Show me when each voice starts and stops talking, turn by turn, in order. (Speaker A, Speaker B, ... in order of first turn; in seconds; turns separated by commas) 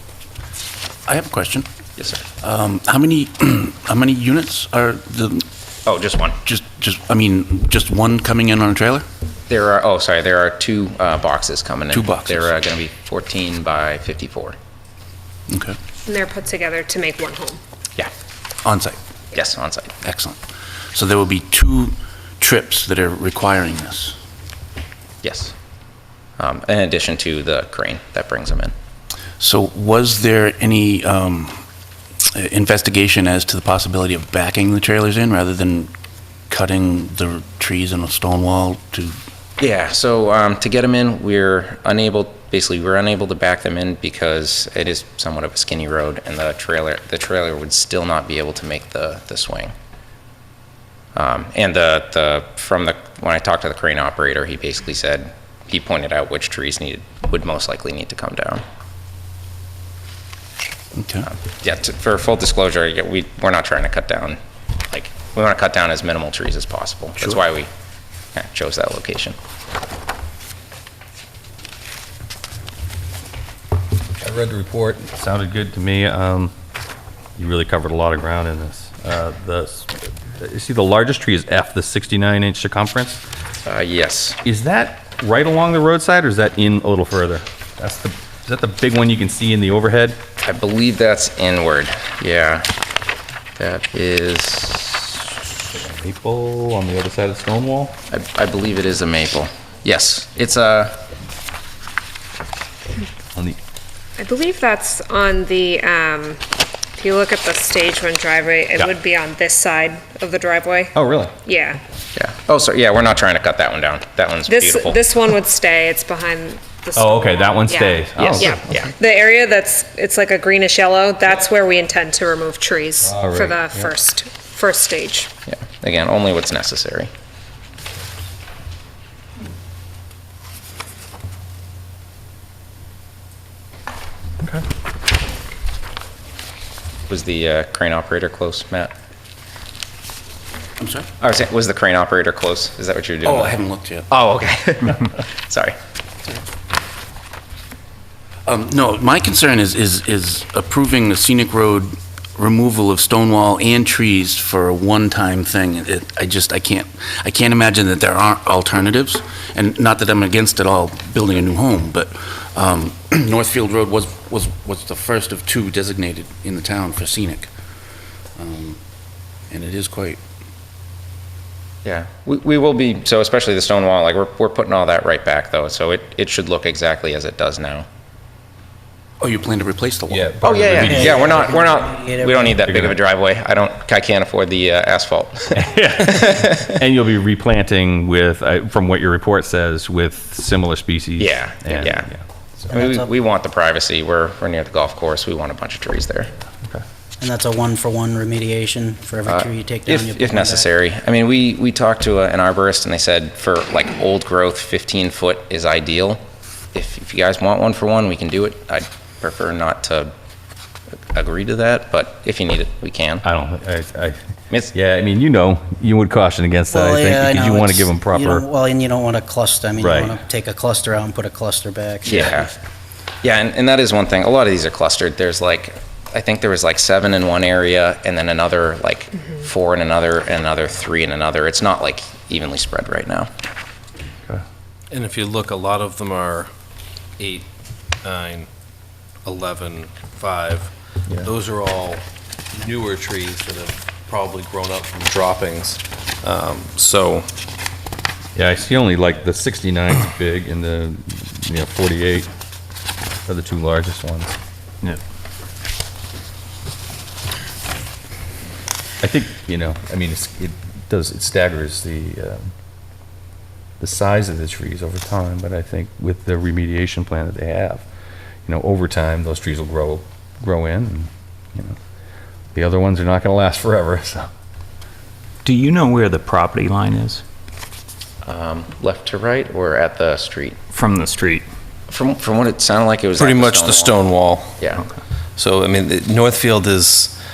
Speaker A: 1.1-1.7, Speaker B: 2.0-2.2, Speaker A: 2.4-5.5, Speaker B: 5.8-6.4, Speaker A: 6.5-9.0, Speaker B: 9.5-14.5, Speaker A: 11.9-12.5, Speaker A: 15.5-15.8, Speaker C: 16.1-17.6, Speaker A: 18.6-19.0, Speaker B: 19.3-20.0, Speaker A: 20.0-20.4, Speaker A: 20.9-24.1, Speaker B: 25.2-25.5, Speaker B: 26.4-28.7, Speaker A: 29.4-31.6, Speaker A: 32.3-35.9, Speaker A: 36.5-39.2, Speaker B: 39.6-49.7, Speaker B: 51.1-58.6, Speaker A: 61.0-61.3, Speaker B: 61.3-64.4, Speaker B: 64.9-67.7, Speaker B: 68.3-69.3, Speaker D: 74.2-76.5, Speaker D: 77.4-83.2, Speaker B: 83.7-84.4, Speaker D: 84.4-90.2, Speaker B: 90.4-92.7, Speaker B: 93.6-95.2, Speaker D: 95.7-98.0, Speaker B: 98.1-100.9, Speaker C: 104.2-106.4, Speaker C: 107.0-110.9, Speaker D: 110.9-111.3, Speaker C: 111.4-111.8, Speaker B: 112.2-115.0, Speaker C: 114.5-125.3, Speaker D: 117.0-118.6, Speaker B: 118.2-118.9, Speaker D: 123.0-123.9, Speaker B: 125.5-127.1, Speaker B: 137.1-138.9, Speaker A: 140.8-141.1, Speaker B: 141.2-143.6, Speaker A: 143.2-144.1, Speaker B: 144.1-145.7, Speaker A: 148.4-167.5, Speaker A: 168.3-168.8, Speaker A: 169.5-170.2, Speaker B: 171.8-177.8, Speaker A: 179.2-180.3, Speaker D: 180.1-181.3, Speaker B: 180.4-186.7, Speaker E: 180.7-182.6, Speaker D: 182.6-183.0, Speaker D: 185.5-192.2, Speaker B: 191.2-192.1, Speaker E: 192.7-193.1, Speaker B: 192.7-196.3, Speaker E: 197.2-200.7, Speaker B: 199.3-206.2, Speaker B: 206.7-210.1, Speaker B: 211.1-213.2, Speaker D: 213.2-214.2, Speaker D: 214.7-218.4, Speaker E: 216.7-222.3, Speaker D: 219.8-220.2, Speaker B: 222.0-222.5, Speaker B: 223.2-233.3, Speaker F: 234.9-236.5, Speaker F: 237.2-237.4, Speaker F: 238.0-238.5, Speaker F: 239.2-240.7, Speaker F: 241.2-242.0, Speaker F: 242.6-247.3, Speaker D: 248.3-252.3, Speaker D: 253.2-254.4, Speaker D: 259.0-262.5, Speaker D: 263.8-267.8, Speaker D: 268.4-271.8, Speaker D: 272.5-274.3, Speaker G: 275.4-277.2, Speaker B: 278.2-280.6, Speaker G: 280.7-281.4, Speaker B: 281.9-284.8, Speaker F: 283.2-284.5, Speaker F: 285.4-287.1